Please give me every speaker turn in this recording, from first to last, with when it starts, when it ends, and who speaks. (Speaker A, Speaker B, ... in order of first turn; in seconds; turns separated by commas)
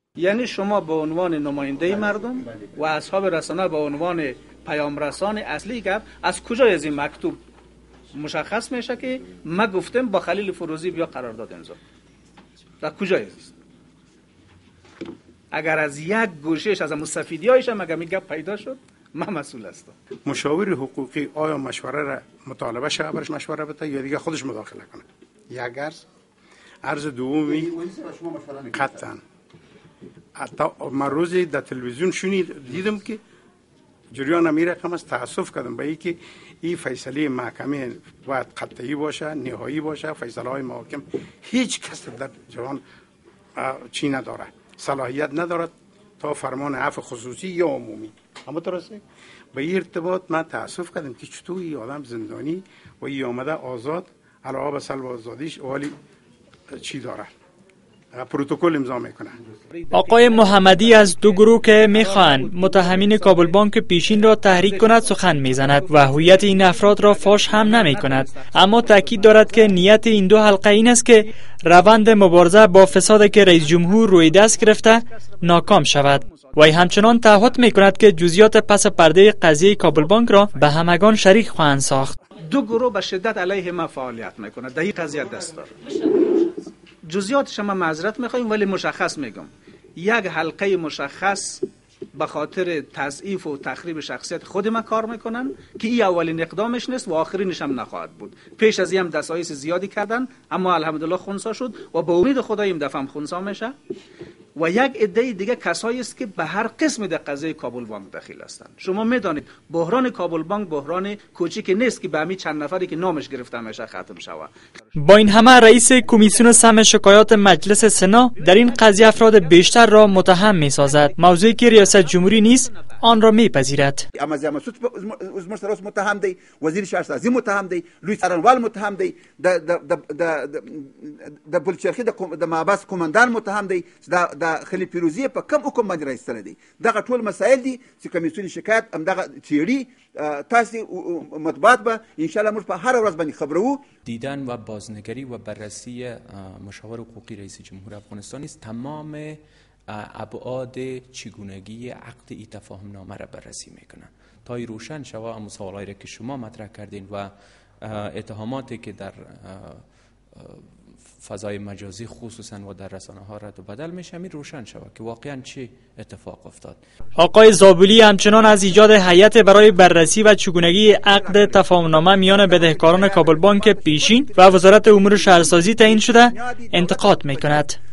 Speaker A: 0.2-7.4, Speaker B: 1.8-2.7, Speaker A: 8.1-11.8, Speaker A: 12.8-13.5, Speaker A: 15.5-19.9, Speaker C: 20.2-26.0, Speaker C: 26.8-27.7, Speaker B: 27.5-29.0, Speaker C: 28.7-29.2, Speaker C: 30.4-33.2, Speaker C: 34.1-42.8, Speaker C: 43.6-49.0, Speaker C: 49.5-56.0, Speaker C: 56.7-57.3, Speaker C: 58.1-59.4, Speaker A: 59.7-63.6, Speaker D: 59.9-82.2, Speaker A: 64.2-69.8, Speaker A: 72.5-78.0, Speaker A: 79.8-80.9, Speaker A: 82.4-103.8, Speaker A: 104.6-123.2, Speaker D: 115.0-124.0, Speaker B: 124.1-143.8, Speaker E: 144.1-149.4, Speaker E: 149.9-157.3, Speaker E: 157.8-159.8, Speaker E: 160.4-160.6, Speaker E: 161.2-166.8, Speaker D: 167.2-177.8, Speaker B: 169.3-169.7, Speaker B: 170.8-177.7